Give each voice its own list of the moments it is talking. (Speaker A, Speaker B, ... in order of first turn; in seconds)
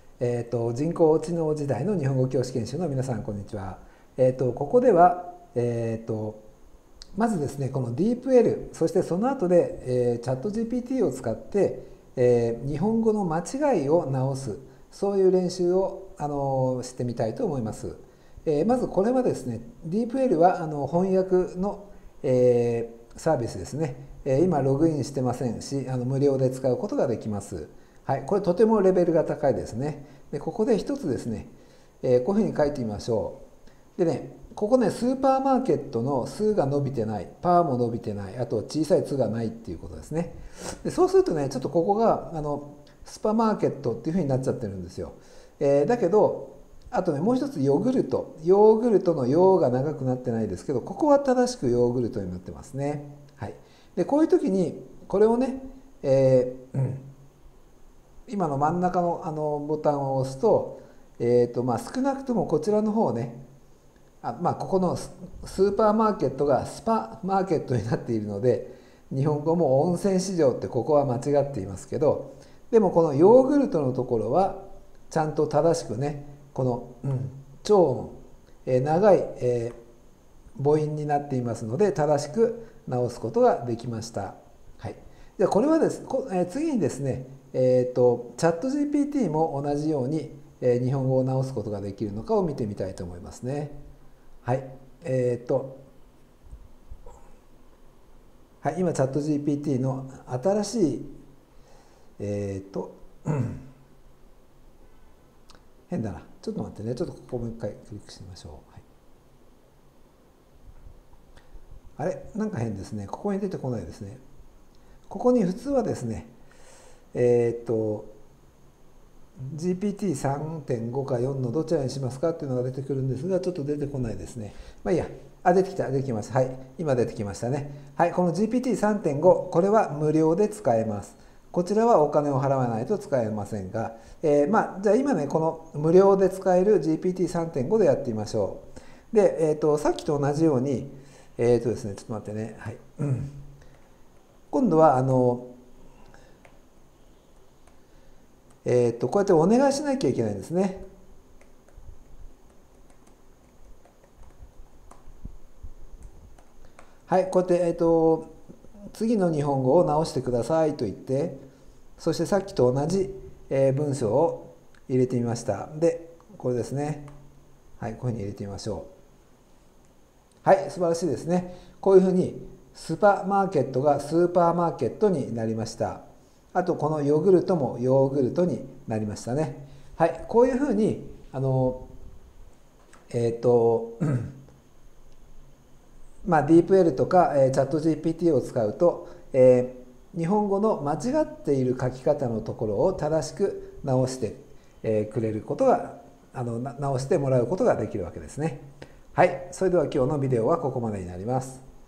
Speaker A: 0.2-6.4, 7.2-33.4, 34.0-57.0, 58.3-63.4, 64.2-79.8, 80.5-93.8, 94.4-95.8, 98.6-101.1, 102.2-103.6, 105.9-108.8, 112.0-114.2, 115.1-116.3, 117.1-118.1, 119.4-143.3, 144.5-145.5, 148.6-150.8, 157.1-158.3, 158.9-161.4, 162.0-167.1, 167.8-168.9, 170.4-181.8, 183.1-184.3, 186.2-201.6